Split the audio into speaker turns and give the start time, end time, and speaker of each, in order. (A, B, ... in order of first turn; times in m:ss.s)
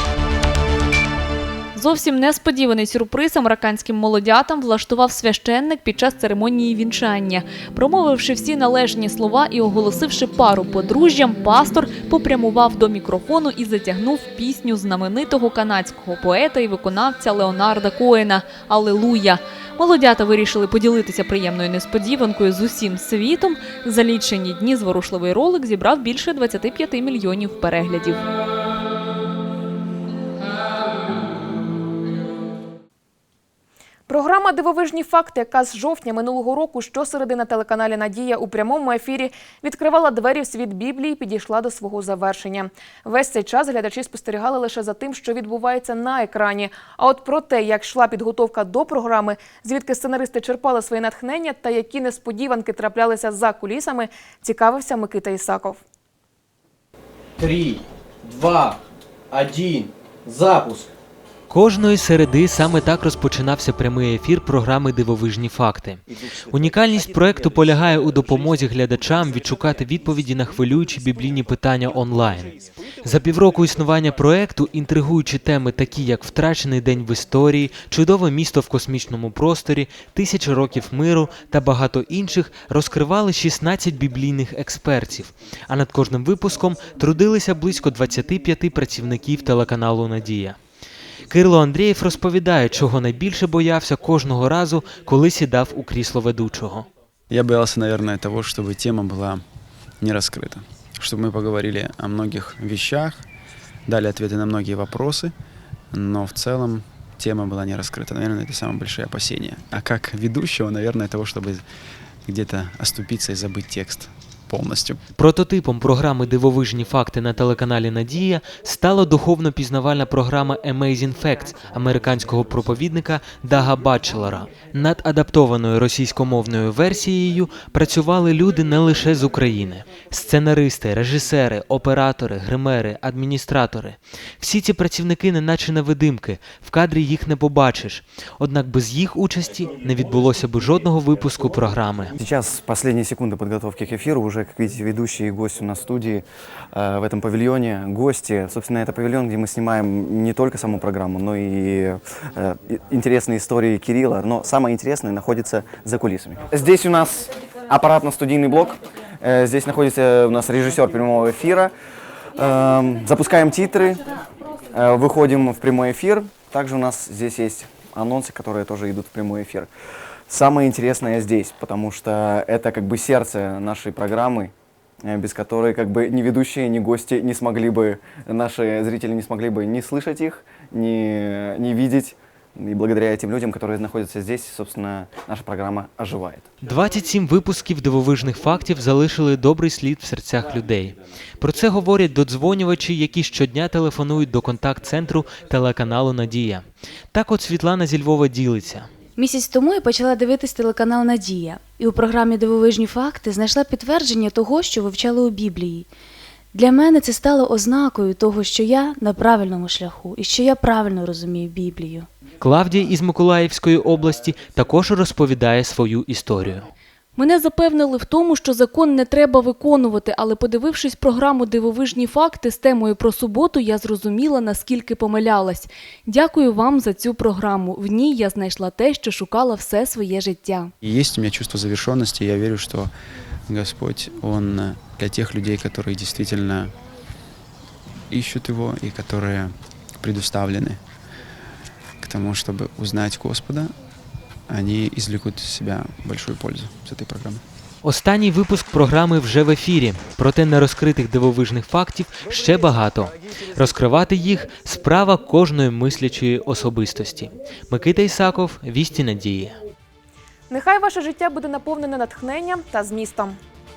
0:01.8-0:28.2 A
0:34.1-0:55.8 B
0:57.4-0:58.8 C
0:59.3-1:00.9 C
1:01.5-1:30.6 D
1:31.3-1:36.9 D
1:37.3-1:39.4 E
1:40.0-1:43.3 E
1:43.9-1:45.3 E
1:45.9-1:51.6 E
1:52.3-1:55.0 E
1:55.2-2:22.1 D
2:22.2-2:41.7 F
2:42.4-2:44.0 F
2:44.7-2:49.7 F
2:50.3-2:54.5 F
2:55.0-3:06.5 F
3:06.6-3:18.9 D
3:19.2-3:25.9 G
3:26.5-3:32.1 G
3:32.4-3:36.7 D
3:37.2-3:50.7 A
3:50.8-3:52.9 E
3:53.5-3:56.8 E
3:58.1-4:00.8 E
4:02.0-4:03.7 E
4:04.5-4:07.4 E
4:07.8-4:19.6 D
4:20.5-4:23.4 B